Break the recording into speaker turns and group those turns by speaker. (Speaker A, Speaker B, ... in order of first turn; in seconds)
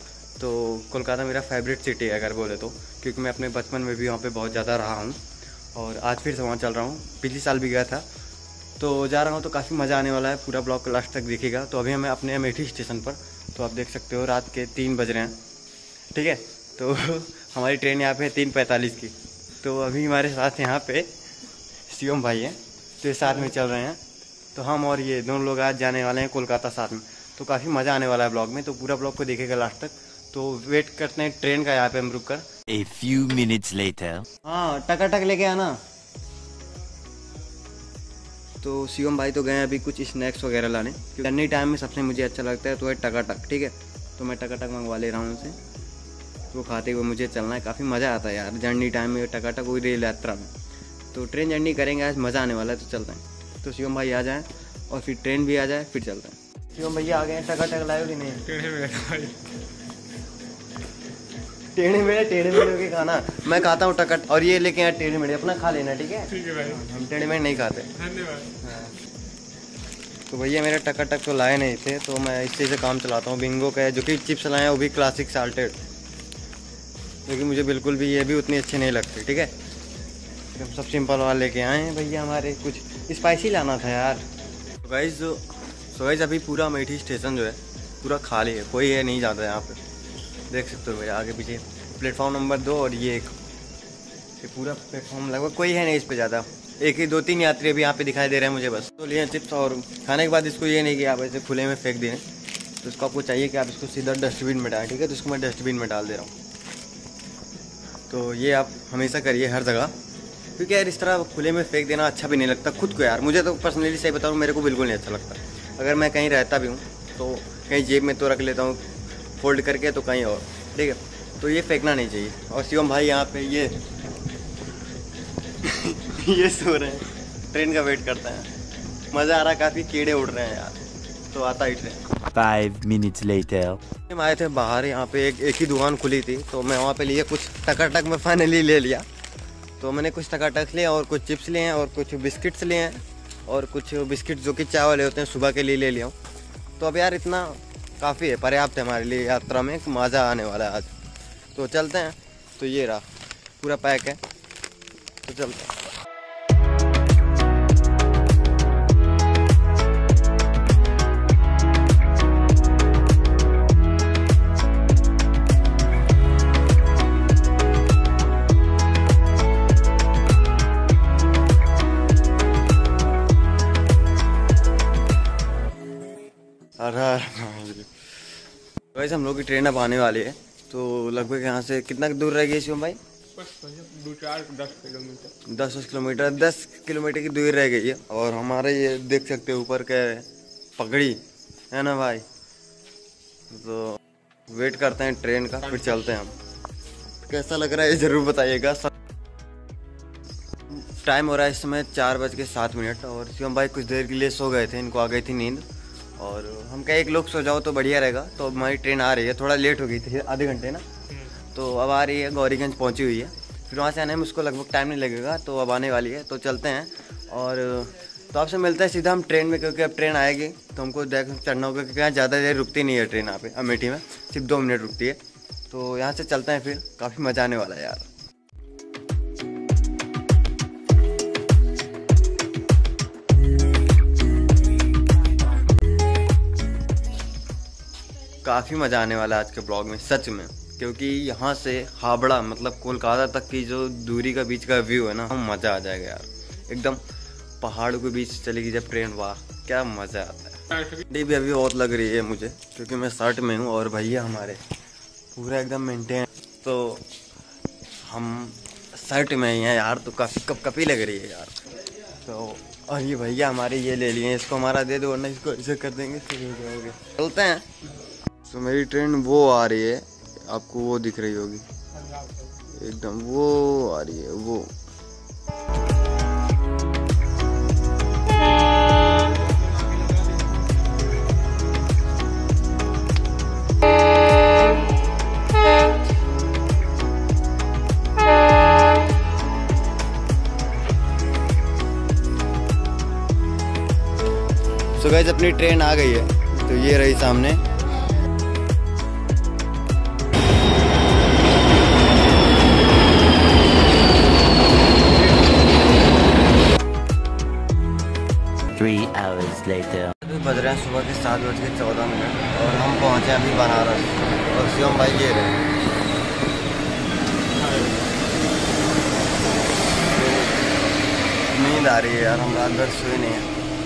Speaker A: 0.4-5.2, 5.7-8.0, 8.8-15.3, 16.1-21.1, 21.9-24.0, 24.5-32.5, 34.4-35.8, 38.6-45.6, 46.5-50.5, 51.1-58.5, 61.7-67.9, 68.6-68.9, 70.3-75.8, 77.2-79.5, 80.5-84.2, 84.8-89.8, 90.5-93.3, 94.4-102.2, 102.8-106.3, 108.1-110.0, 110.5-118.8, 119.4-123.8, 125.6-128.5, 129.1-132.0, 134.1-139.0, 139.8-146.1, 146.8-150.9, 151.5-153.0, 153.6-154.2, 155.2-155.7, 176.8-177.9, 178.9-183.0, 185.4-191.2, 191.7-192.2, 193.5-196.4, 197.2-198.9, 200.7-205.7, 206.2-210.8, 211.5-228.1, 238.4-247.0, 247.6-254.6, 255.3-257.1, 258.0-261.6, 262.1-267.6, 268.4-271.6, 272.7-274.7, 294.9-297.6, 310.2-315.6, 320.1-320.6, 321.5-323.5
Speaker B: 32.7-34.2, 132.3-133.8, 308.7-310.1
Speaker C: 58.5-59.4, 66.3-66.8, 68.0-68.5, 183.4-185.3, 271.9-272.5, 279.5-280.2